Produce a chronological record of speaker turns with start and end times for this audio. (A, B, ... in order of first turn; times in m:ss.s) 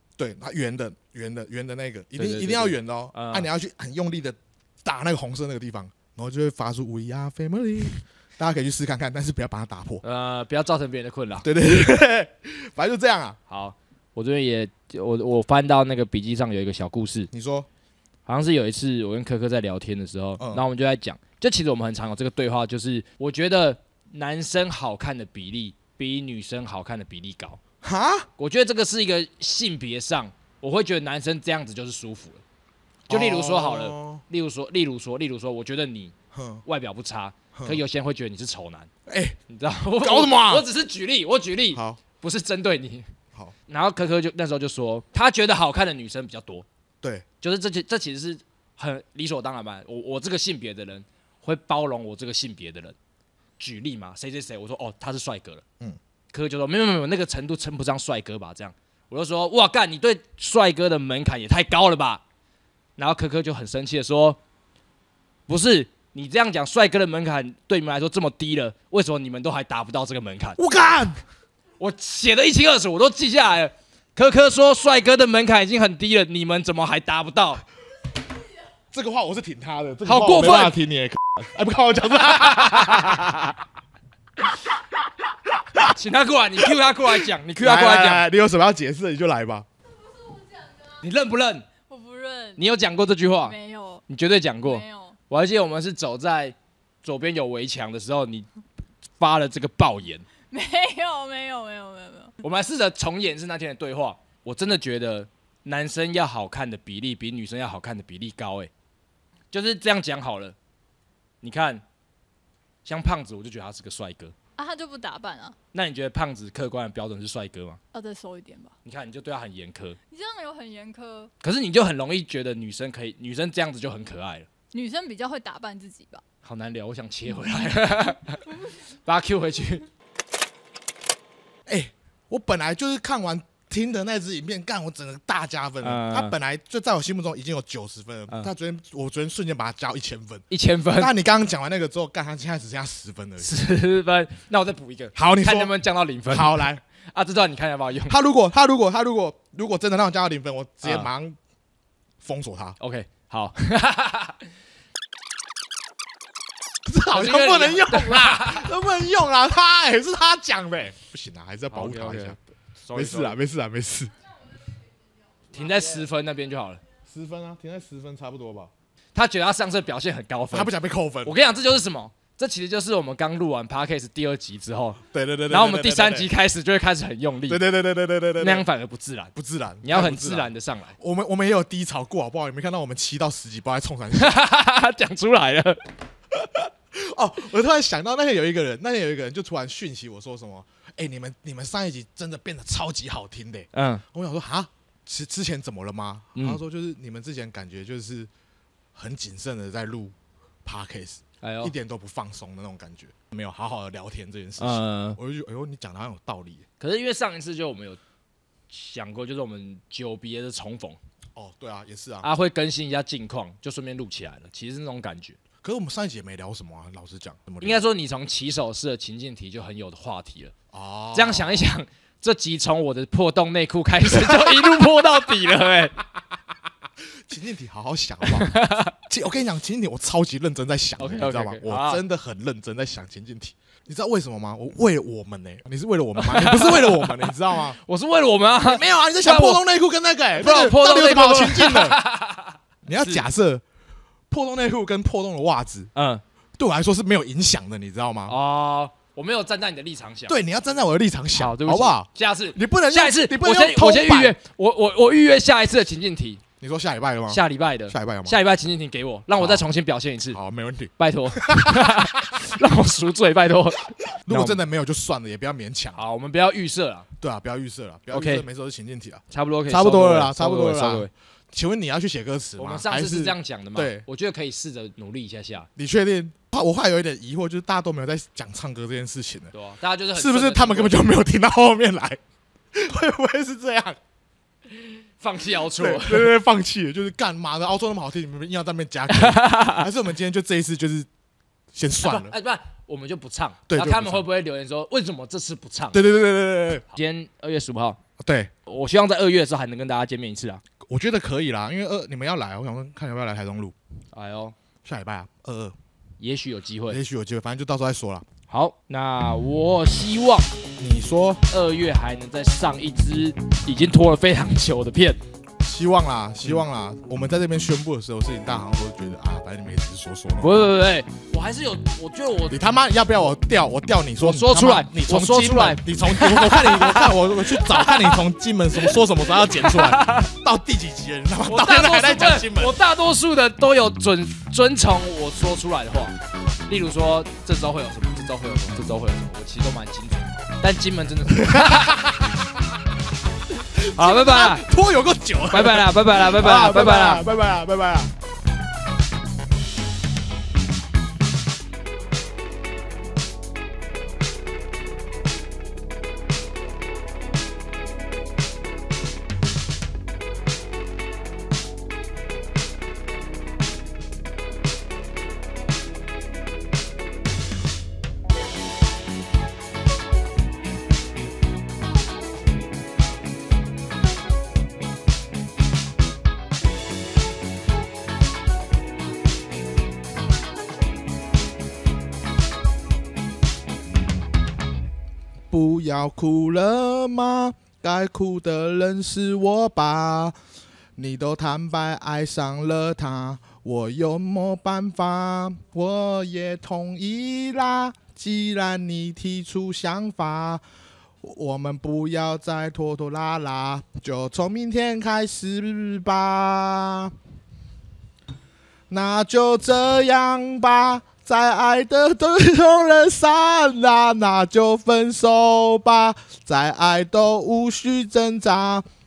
0:00.2-0:10.0 A
0:02.2-0:03.5 B
0:10.0-0:11.5 B
0:11.4-0:13.4 A
0:13.5-0:17.3 B
0:17.3-0:17.7 A
0:18.3-0:27.6 B
0:20.4-0:20.6 A
0:27.8-0:28.3 A
0:28.4-0:32.4 B
0:33.1-0:34.2 A
0:33.1-0:38.9 B
0:36.3-0:36.6 A
0:37.5-0:37.8 A
0:39.1-0:39.4 A
0:39.5-0:43.1 B
0:40.0-0:40.7 A
0:41.7-0:42.0 A
0:43.7-0:46.7 B
0:47.4-0:53.0 B
0:53.6-0:55.6 B
0:56.3-1:02.2 B
1:03.0-1:04.4 B
1:05.5-1:10.6 B
1:10.6-1:11.2 A
1:11.8-1:17.6 B
1:18.9-1:23.4 A
1:20.1-1:20.8 B
1:22.3-1:23.4 B
1:25.9-1:28.3 B
1:26.6-1:29.7 A
1:30.0-1:31.0 C
1:31.0-1:31.7 B
1:31.9-1:32.6 C
1:32.6-1:33.6 B
1:33.4-1:34.0 C
1:34.1-1:38.5 B
1:34.6-1:35.2 C
1:39.2-1:40.3 B
1:40.5-1:42.4 C
1:42.4-1:48.7 B
1:49.5-1:50.6 B
1:51.4-1:51.8 B
1:52.8-1:54.4 B
1:54.6-1:55.6 C
1:55.7-1:57.8 B
1:57.9-1:58.8 C
1:58.8-2:00.0 B
2:00.1-2:01.3 C
2:01.4-2:04.5 B
2:04.7-2:06.2 C
2:06.4-2:09.9 B
2:11.7-2:23.5 A
2:15.8-2:16.4 B
2:20.5-2:21.1 B
2:23.4-2:28.2 B
2:25.2-2:25.8 A
2:26.3-2:26.8 A
2:28.1-2:31.4 A
2:30.8-2:31.1 B
2:32.2-2:32.8 A
2:32.8-2:34.5 B
2:36.9-2:42.4 A
2:37.1-2:38.7 B
2:41.7-2:43.4 B
2:42.9-2:44.2 A
2:45.5-2:46.8 B
2:47.1-2:48.7 A
2:49.2-2:57.7 B
2:50.5-2:51.4 A
2:55.1-2:56.3 A
2:57.5-2:58.7 A
2:58.4-3:01.0 B
2:59.4-3:04.4 A
3:04.2-3:05.8 B
3:06.4-3:18.3 A
3:13.7-3:14.0 B
3:19.0-3:26.6 A
3:21.4-3:21.7 B
3:24.6-3:25.2 B
3:26.8-3:28.0 B
3:28.7-3:31.0 B
3:31.4-3:32.3 A
3:32.2-3:35.4 B
3:35.6-3:37.8 A
3:37.6-3:40.6 B
3:40.7-3:41.7 A
3:41.1-3:46.0 B
3:47.3-3:57.8 A
3:48.2-3:48.9 B
3:51.0-3:52.0 B
3:56.2-3:59.7 B
3:58.6-4:02.0 A
4:00.4-4:03.3 B
4:02.8-4:03.6 A
4:04.3-4:05.9 A
4:06.0-4:06.2 B
4:06.6-4:08.4 A
4:08.3-4:10.4 B
4:10.3-4:14.4 A
4:11.4-4:16.4 B
4:16.6-4:18.4 A
4:17.3-4:20.4 B
4:19.4-4:19.6 A
4:20.3-4:22.4 A
4:21.0-4:24.6 B
4:24.2-4:26.0 A
4:26.0-4:27.1 B
4:27.2-4:34.1 A
4:28.1-4:28.5 B
4:29.3-4:31.1 B
4:32.6-4:35.7 B
4:35.8-4:39.5 A
4:39.5-4:41.1 B
4:40.2-4:42.2 A
4:42.7-4:44.0 A
4:44.8-4:46.4 B
4:45.7-4:51.1 A
4:49.1-4:49.9 B
4:51.7-4:52.4 A
4:52.0-4:56.0 B
4:53.7-4:54.3 A
4:55.9-4:56.8 A
4:56.9-4:58.0 B
4:58.2-4:58.5 A
4:58.7-5:00.6 B
5:00.8-5:03.8 A
5:04.1-5:04.6 B
5:04.8-5:05.8 A
5:06.2-5:07.0 B
5:06.9-5:08.2 A
5:08.5-5:10.5 B
5:10.8-5:11.4 A
5:11.5-5:15.2 B
5:15.6-5:20.7 A
5:20.4-5:22.6 B
5:22.5-5:32.8 A
5:24.2-5:28.2 B
5:28.7-5:30.3 B
5:31.4-5:36.2 B
5:36.7-5:42.1 B
5:41.3-5:42.3 A
5:43.8-5:48.1 A
5:43.9-5:44.7 B
5:45.5-5:47.3 B
6:25.5-6:30.4 A
6:31.0-6:40.6 A
6:41.2-6:47.1 A
6:48.9-6:58.9 A